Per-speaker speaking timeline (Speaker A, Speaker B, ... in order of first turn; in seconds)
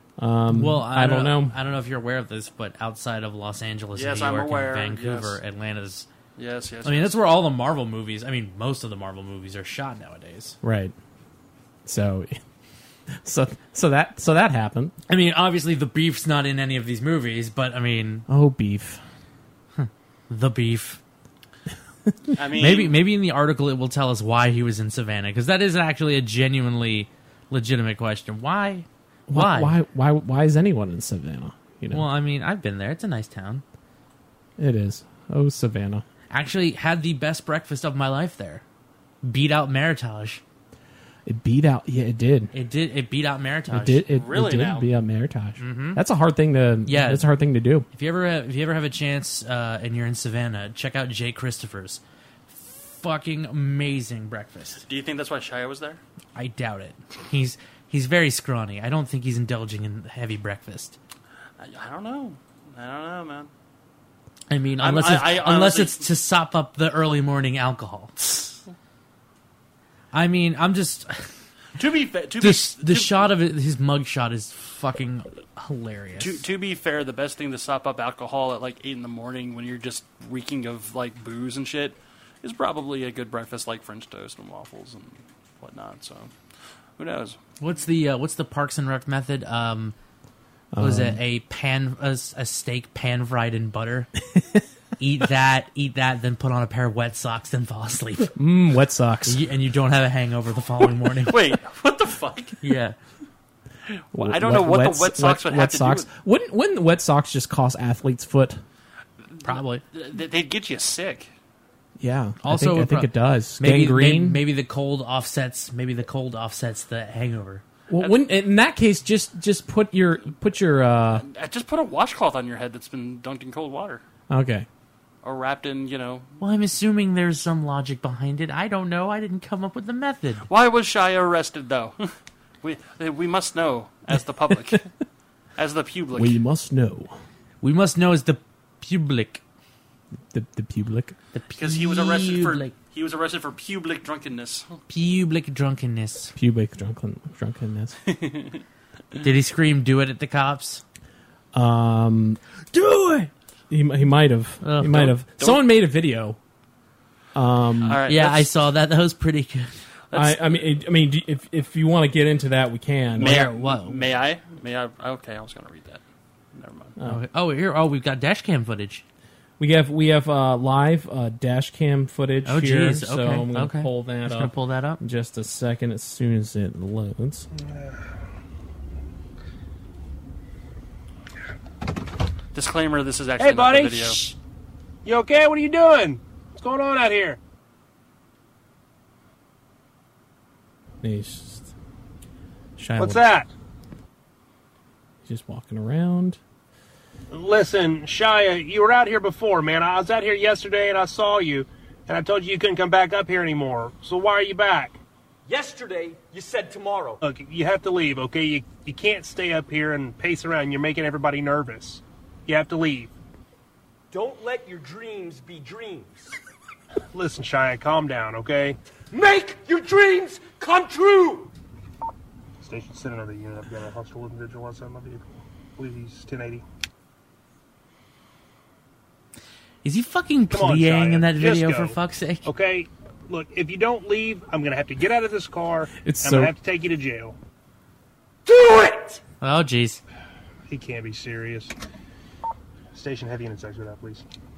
Speaker A: 0.2-1.5, 10.6-10.9, 11.8-12.4, 13.2-14.9, 18.3-19.0, 29.3-32.0, 34.6-36.0, 41.2-42.5, 43.7-47.9, 90.7-91.2, 98.3-99.4, 104.1-108.6, 112.0-114.4, 117.9-121.2, 124.3-124.7, 136.1-137.2, 140.3-141.1, 146.3-148.0, 151.5-152.4, 153.7-156.4, 157.3-158.0, 160.1-163.3, 169.6-177.5, 191.0-191.7, 192.8-193.2, 195.2-196.4, 236.0-236.5
Speaker B: 0.5-6.0, 6.8-10.6, 15.1-18.2, 19.8-21.0, 22.5-29.7, 31.9-33.6, 36.3-38.6, 39.2-40.4, 42.5-44.0, 45.6-46.0, 46.9-47.2, 47.9-54.8, 56.3-61.0, 64.5-68.1, 70.1-71.3, 72.4-76.4, 87.6-89.9, 90.8-94.1, 95.0-98.3, 99.2-101.5, 102.6-103.0, 109.4-109.8, 112.4-117.6, 126.4-130.4, 137.6-139.4, 141.3-142.7, 144.9-146.3, 149.2-150.8, 152.7-153.3, 154.6-155.1, 158.1-159.7, 163.2-164.0, 167.0-169.0, 172.4-175.0, 229.8-232.5, 239.4-240.0
Speaker C: 4.0-5.4, 6.4-7.2, 22.3-23.0, 43.9-44.9, 54.9-56.0, 61.6-63.5, 64.8-66.1, 68.2-68.5, 71.8-73.3, 76.2-86.3, 87.0-87.4, 100.8-102.6, 104.1-106.1, 109.3-111.3, 118.0-118.2, 121.2-124.0, 125.2-126.3, 130.5-132.1, 132.6-134.9, 135.6-136.4, 141.6-144.8, 148.1-148.6, 155.4-155.6, 157.8-158.5, 160.1-160.6, 163.2-166.0, 166.5-166.9, 182.5-184.2
Speaker D: 177.5-178.0, 183.4-184.3, 185.0-187.4, 193.0-193.5, 197.3-205.0, 207.2-213.1, 217.1-218.8, 222.6-226.6, 230.5-237.3, 240.7-241.7, 242.9-244.2
Speaker E: 205.5-207.2, 214.1-216.3, 219.1-221.5, 238.4-239.2